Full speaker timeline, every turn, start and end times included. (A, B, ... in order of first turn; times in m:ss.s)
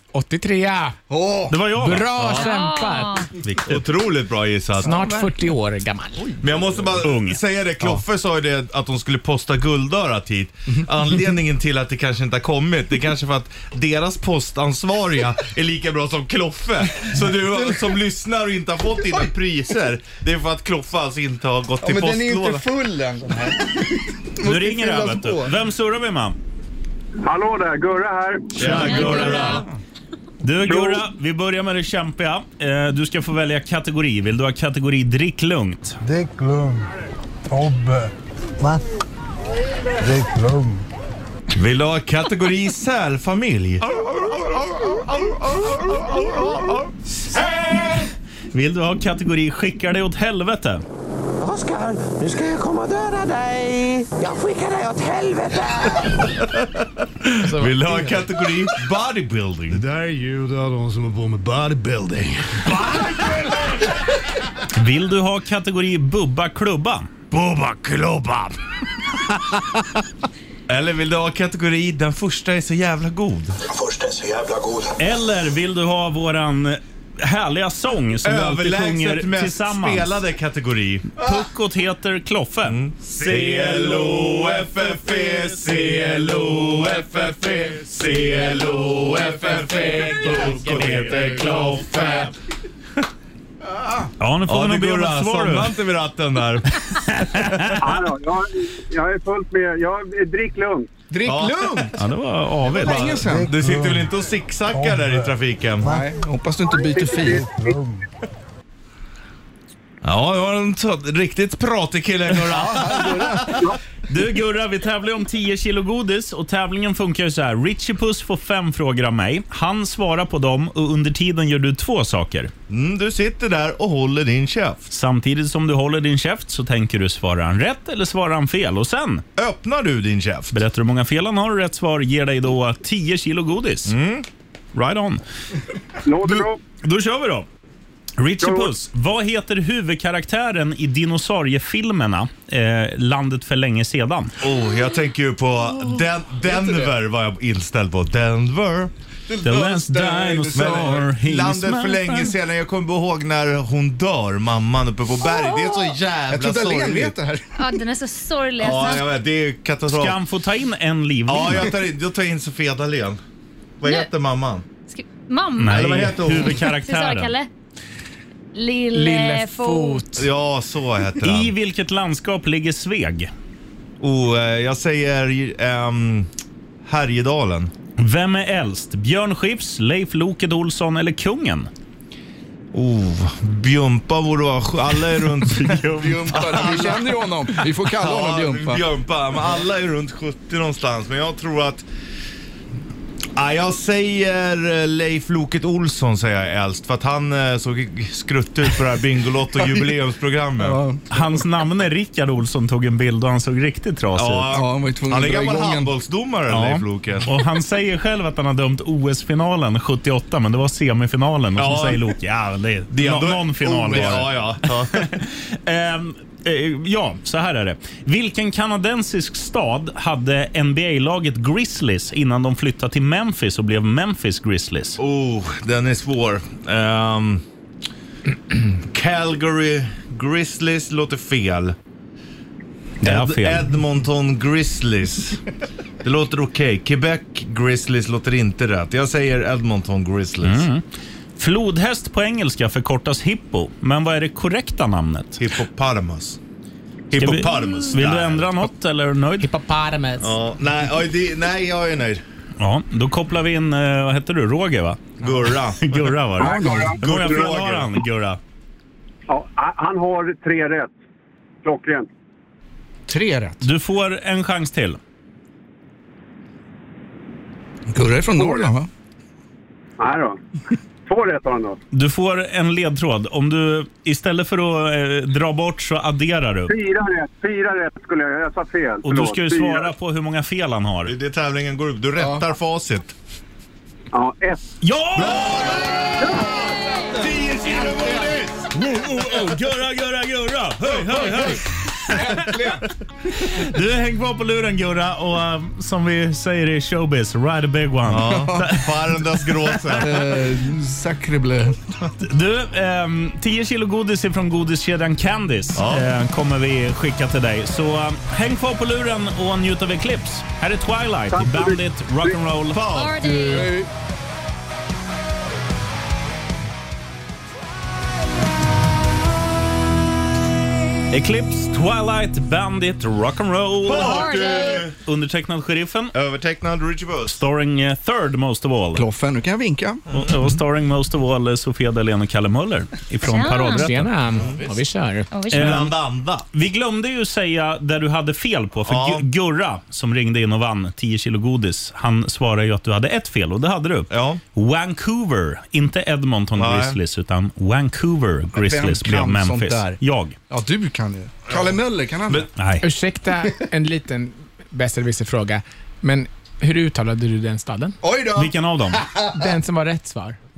0:00.1-0:01.0 A
0:01.1-0:01.6 B
0:01.5-0:02.1 C
0:01.8-0:03.2 A
0:02.1-0:02.5 D
0:02.3-0:03.3 E
0:03.4-0:03.8 C
0:03.6-0:04.9 D
0:04.8-0:06.3 A
0:04.8-0:05.4 B
0:06.3-0:06.8 B
0:06.4-0:22.6 D
0:06.9-0:07.4 C
0:17.5-0:17.8 B
0:21.8-0:25.5 B
0:24.4-0:26.4 C
0:27.2-0:28.6 F
0:28.6-0:29.6 D
0:28.6-0:29.6 C
0:28.7-0:29.6 E
0:30.4-0:36.0 C
0:30.7-0:31.0 F
0:36.0-0:36.9 G
0:37.5-0:38.8 G
0:40.0-0:40.8 G
0:41.5-0:43.8 D
0:44.2-0:44.8 G
0:45.0-0:46.8 D
0:47.4-0:48.0 C
0:48.5-0:50.8 C
0:51.4-0:56.3 H
0:56.3-0:59.8 D
0:57.4-0:58.2 A
0:59.7-1:04.0 G
1:02.8-1:03.3 D
1:04.8-1:07.2 C
1:07.3-1:08.6 D
1:10.7-1:13.6 D
1:13.7-1:14.9 H
1:15.0-1:20.1 C
1:18.2-1:21.2 D
1:21.2-1:25.3 C
1:22.6-1:32.3 D
1:29.2-1:32.3 C
1:34.2-1:35.7 C
1:34.5-1:36.8 D
1:37.0-1:38.0 C
1:37.3-1:37.8 D
1:37.8-1:40.9 F
1:41.1-1:42.0 B
1:41.2-1:42.0 D
1:42.0-1:43.2 C
1:42.7-1:43.5 B
1:42.8-1:45.9 D
1:43.2-1:44.1 G
1:44.7-1:45.3 G
1:45.8-1:47.4 B
1:47.1-1:48.0 G
1:47.2-1:47.5 F
1:50.0-1:53.7 D
1:52.6-1:53.5 B
1:54.1-2:02.5 C
2:02.7-2:04.8 D
2:04.9-2:09.2 C
2:09.4-2:10.6 D
2:10.5-2:13.9 C
2:13.8-2:14.2 D
2:14.7-2:15.2 C
2:16.0-2:16.6 F
2:16.2-2:17.5 C
2:18.2-2:24.3 C
2:18.4-2:18.7 F
2:24.4-2:28.9 D
2:26.4-2:26.9 B
2:29.3-2:31.0 B
2:29.4-2:32.3 C
2:30.5-2:37.1 D
2:36.3-2:37.6 B
2:37.6-2:39.1 E
2:38.6-2:40.2 D
2:39.9-2:41.7 C
2:41.3-2:43.2 D
2:43.8-2:44.6 D
2:43.8-2:44.1 E
2:44.9-2:47.5 E
2:45.6-2:47.3 C
2:45.7-2:46.6 D
2:48.5-2:50.0 E
2:48.9-2:50.3 A
2:50.2-2:51.5 D
2:51.2-2:53.3 C
2:54.0-2:56.3 D
2:56.8-2:57.7 D
2:58.0-3:01.7 C
3:02.7-3:05.8 D
3:05.4-3:06.8 C
3:05.9-3:08.8 B
3:06.3-3:07.2 D
3:07.8-3:11.8 D
3:13.4-3:20.8 D
3:20.6-3:21.1 B
3:21.1-3:24.5 C
3:24.1-3:27.3 D
3:24.5-3:25.9 B
3:26.5-3:45.0 C
3:31.6-3:32.1 D
3:32.9-3:35.1 D
3:45.0-3:47.4 D
3:48.8-3:51.8 D
3:53.0-3:53.7 C
3:53.0-3:55.4 D
3:56.0-4:00.7 D
4:00.4-4:00.8 C
4:01.4-4:05.4 C
4:05.4-4:06.4 D
4:07.1-4:08.6 D
4:07.1-4:09.5 C
4:09.4-4:10.3 A
4:10.2-4:12.2 D
4:12.6-4:15.2 C
4:15.2-4:17.9 D
4:15.8-4:18.4 C
4:16.4-4:17.0 B
4:16.4-4:17.0 F
4:19.3-4:20.9 F
4:21.6-4:22.1 F
4:23.1-4:23.6 B
4:23.6-4:25.0 C
4:27.9-4:28.9 B
4:30.0-4:30.4 F
4:31.0-4:31.8 F
4:31.9-4:36.7 C
4:36.7-4:39.9 F
4:39.0-4:41.1 C
4:41.0-4:43.1 D
4:42.2-4:42.4 B
4:44.1-4:44.6 F
4:44.8-4:46.1 C
4:45.1-4:48.7 D
4:48.7-4:52.5 C
4:51.2-4:51.5 B
4:52.1-4:52.8 B
4:53.3-4:59.7 C
4:58.1-5:00.4 D
4:58.3-4:58.6 B
5:00.0-5:01.8 B
5:02.2-5:12.9 C
5:05.7-5:06.1 D
5:11.3-5:11.8 F
5:12.7-5:13.6 D
5:12.9-5:13.8 E
5:13.4-5:13.9 B
5:21.1-5:26.1 C
5:23.8-5:24.9 D
5:23.9-5:24.9 E
5:26.1-5:27.4 D
5:27.3-5:29.0 C
5:28.9-5:30.0 B
5:30.1-5:34.1 C
5:33.2-5:33.9 E
5:33.7-5:35.3 A
5:35.3-5:35.8 E
5:35.5-5:35.9 C
5:35.5-5:36.4 D
5:36.5-5:50.4 C
5:38.8-5:39.2 D
5:44.1-5:44.4 D
5:46.6-5:47.0 D
5:48.5-5:50.0 B
5:50.5-5:52.5 B
5:52.6-5:52.8 C
5:52.8-5:58.0 A
5:58.0-5:59.4 B
5:58.3-5:59.0 C
5:59.3-6:00.4 A